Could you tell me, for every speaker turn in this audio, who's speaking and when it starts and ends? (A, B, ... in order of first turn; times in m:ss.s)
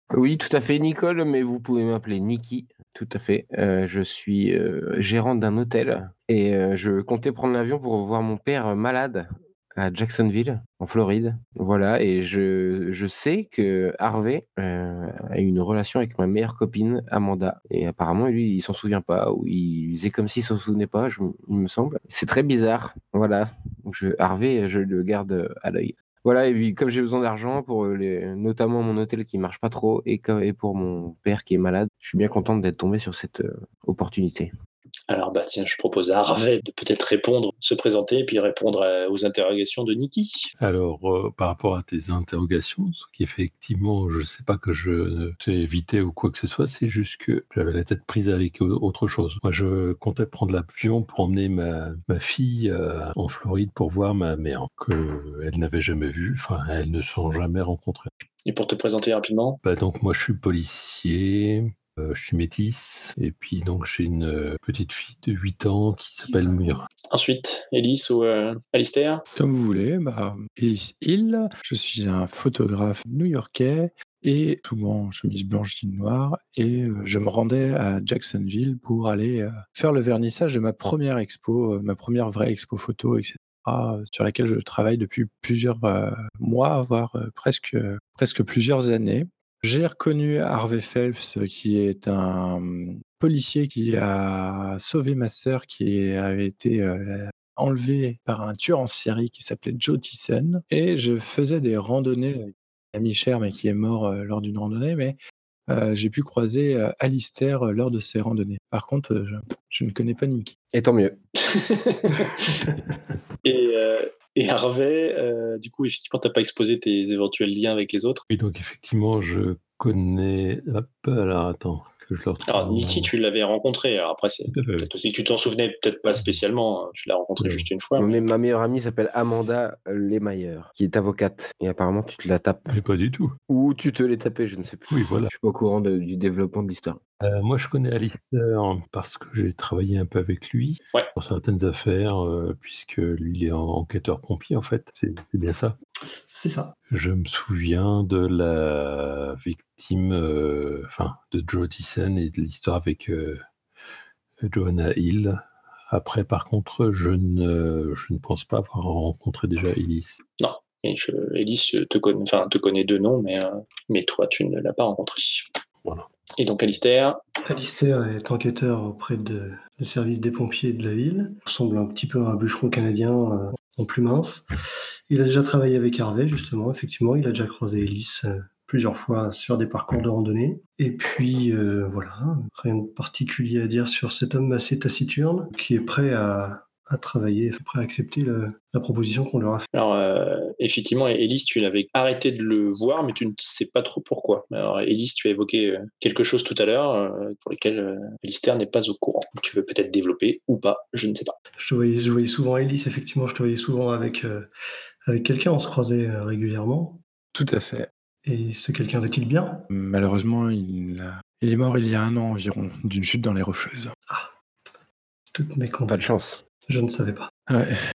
0:00.1-0:34.5 A
0:35.1-0:40.5 B
0:40.6-0:58.1 C
0:58.5-0:59.6 B
0:59.6-1:06.9 C
1:07.1-1:09.2 B
1:09.4-1:50.6 D
1:50.7-1:51.2 A
1:51.4-1:52.6 B
1:53.4-1:58.2 B
1:58.3-2:03.1 C
2:02.5-2:08.2 B
2:04.5-2:04.9 C
2:07.4-2:07.7 C
2:08.0-2:12.8 A
2:12.7-2:13.4 C
2:13.5-2:17.0 A
2:14.9-2:15.3 C
2:17.2-2:25.8 C
2:26.3-2:26.8 E
2:26.9-2:33.4 C
2:34.4-2:40.2 C
2:40.4-2:45.5 B
2:46.4-2:47.2 B
2:47.4-2:54.5 E
2:55.1-3:09.7 E
3:09.7-3:21.3 B
3:21.6-3:24.5 E
3:25.1-3:27.0 E
3:27.3-3:27.9 D
3:28.2-3:29.7 E
3:29.7-3:33.9 D
3:34.1-3:34.3 E
3:35.3-3:37.3 E
3:35.9-3:36.4 A
3:37.5-3:37.8 D